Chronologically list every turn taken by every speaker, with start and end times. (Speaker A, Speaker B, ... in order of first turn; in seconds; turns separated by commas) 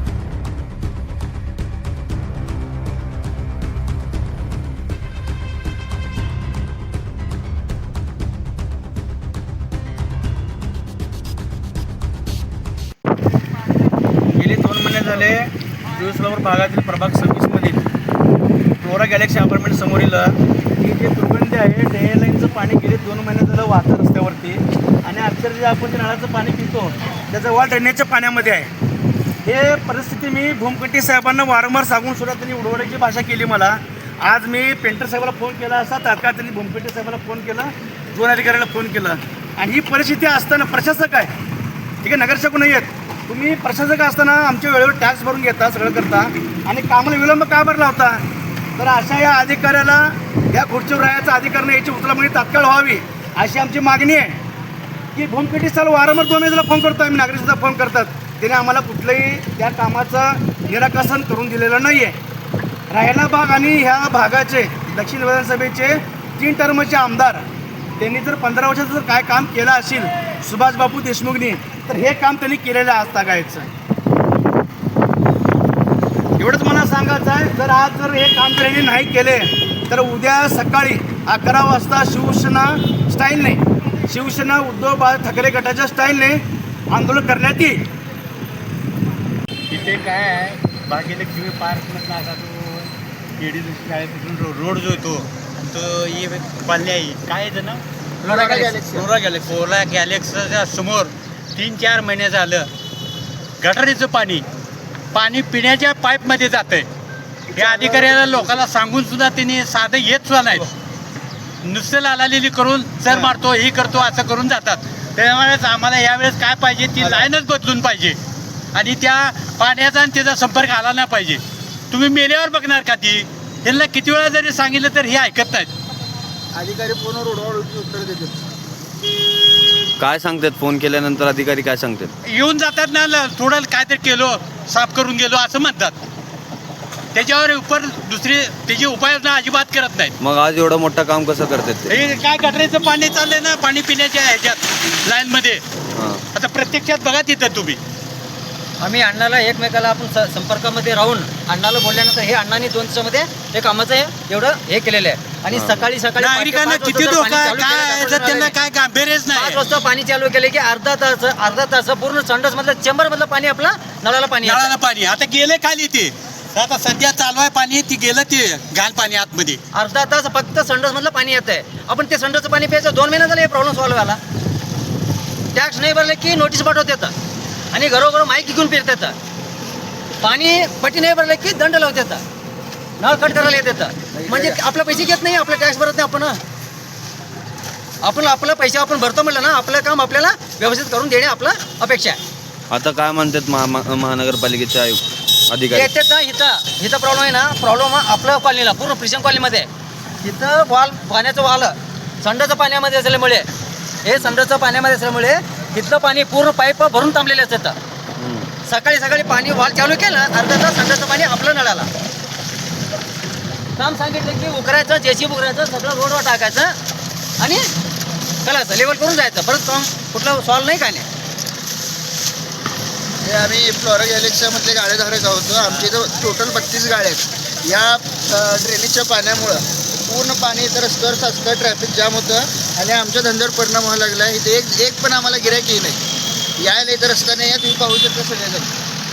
Speaker A: 14.3-17.9, Speaker A: 18.8-28.7, Speaker A: 29.4-41.3, Speaker A: 42.0-48.2, Speaker A: 48.8-54.4, Speaker A: 55.1-62.2, Speaker A: 62.9-67.4, Speaker A: 68.0-73.7, Speaker A: 76.4-87.8, Speaker B: 89.7-97.8, Speaker C: 98.2-99.1, Speaker D: 98.2-98.7, Speaker B: 98.9-102.7, Speaker B: 103.6-104.4, Speaker B: 105.1-106.9, Speaker B: 107.5-110.7, Speaker C: 107.5-108.6, Speaker B: 111.6-118.2, Speaker C: 117.0-117.3, Speaker B: 118.7-125.7, Speaker C: 126.5-128.4, Speaker E: 130.0-132.1, Speaker B: 132.2-136.0, Speaker B: 137.1-140.1, Speaker E: 140.2-142.0, Speaker B: 141.9-145.6, Speaker E: 145.9-146.2, Speaker B: 146.3-147.8, Speaker D: 148.8-158.5, Speaker E: 155.5-155.9, Speaker B: 156.2-159.6, Speaker D: 159.3-164.7, Speaker B: 164.4-169.6, Speaker D: 169.7-174.2, Speaker D: 175.5-177.1, Speaker D: 177.7-179.1, Speaker D: 180.2-182.2, Speaker D: 183.0-186.4, Speaker C: 184.1-184.6, Speaker D: 188.0-192.2, Speaker E: 192.7-195.9, Speaker D: 195.7-199.7, Speaker D: 200.2-203.5, Speaker D: 204.0-207.8, Speaker E: 208.2-208.5, Speaker D: 208.7-211.9, Speaker D: 213.8-216.7, Speaker D: 217.4-217.7, Speaker D: 218.4-221.1, Speaker C: 223.2-236.0, Speaker C: 236.6-238.7